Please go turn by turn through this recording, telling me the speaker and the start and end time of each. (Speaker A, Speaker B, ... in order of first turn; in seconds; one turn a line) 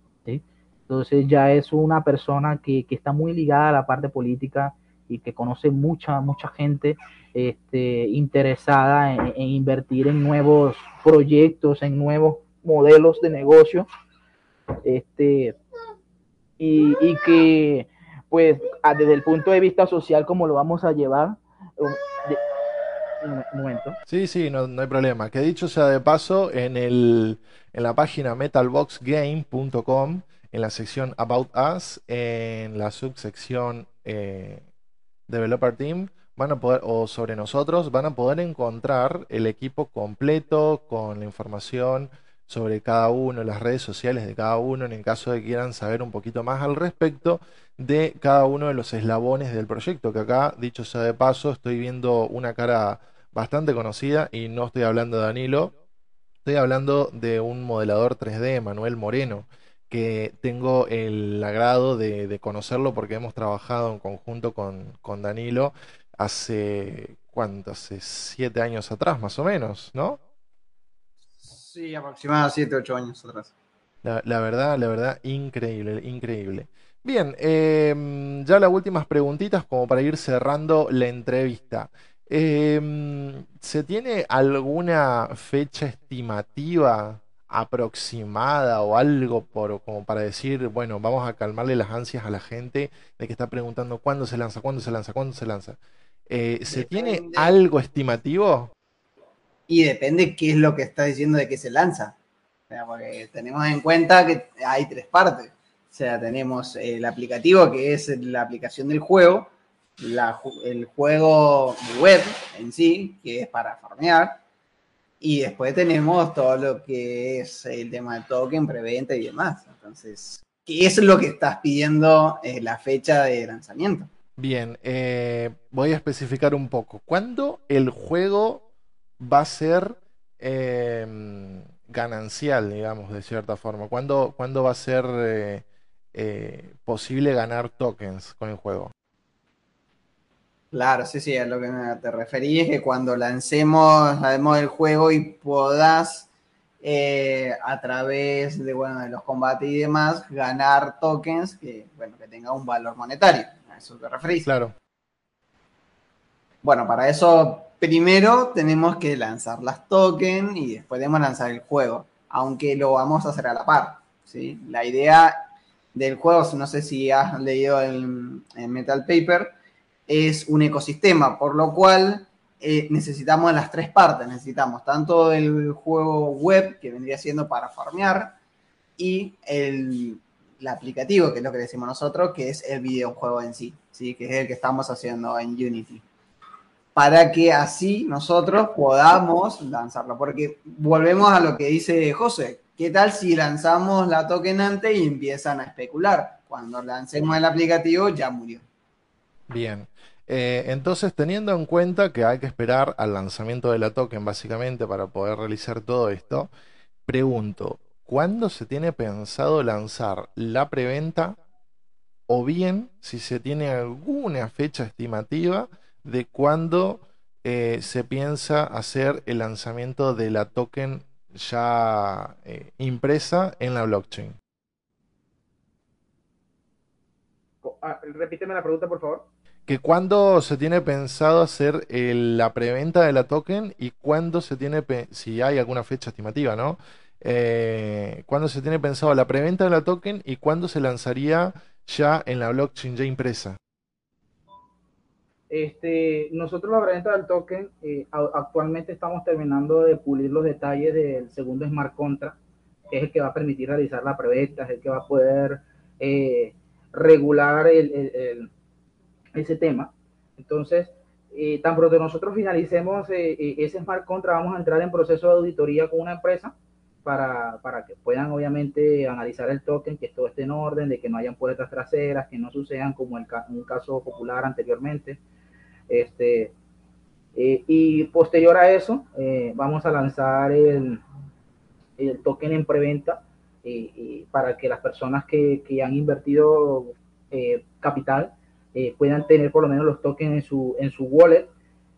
Speaker A: 0.2-13.9
Speaker A: 14.8-15.6
Speaker A: 16.6-22.4
Speaker A: 23.2-24.0
Speaker B: 24.1-34.6
Speaker B: 35.3-55.7
Speaker B: 56.4-70.2
Speaker C: 71.4-73.5
Speaker B: 74.0-95.8
Speaker B: 96.3-98.7
Speaker C: 96.7-97.5
Speaker C: 99.7-102.1
Speaker C: 102.7-114.4
Speaker C: 115.2-124.1
Speaker B: 124.4-128.6
Speaker B: 129.2-138.9
Speaker C: 140.7-146.3
Speaker C: 146.8-154.5
Speaker B: 154.4-154.7
Speaker C: 156.6-169.5
Speaker C: 170.1-178.3
Speaker C: 179.0-186.0
Speaker C: 186.9-198.6
Speaker B: 199.5-206.5
Speaker B: 207.1-211.3
Speaker B: 212.3-224.3
Speaker A: 227.6-229.2
Speaker B: 229.7-243.6
Speaker A: 245.5-252.3
Speaker A: 252.9-258.5
Speaker A: 259.3-266.5
Speaker A: 267.0-275.2
Speaker A: 275.9-276.5
Speaker A: 277.3-281.0
Speaker A: 282.0-291.5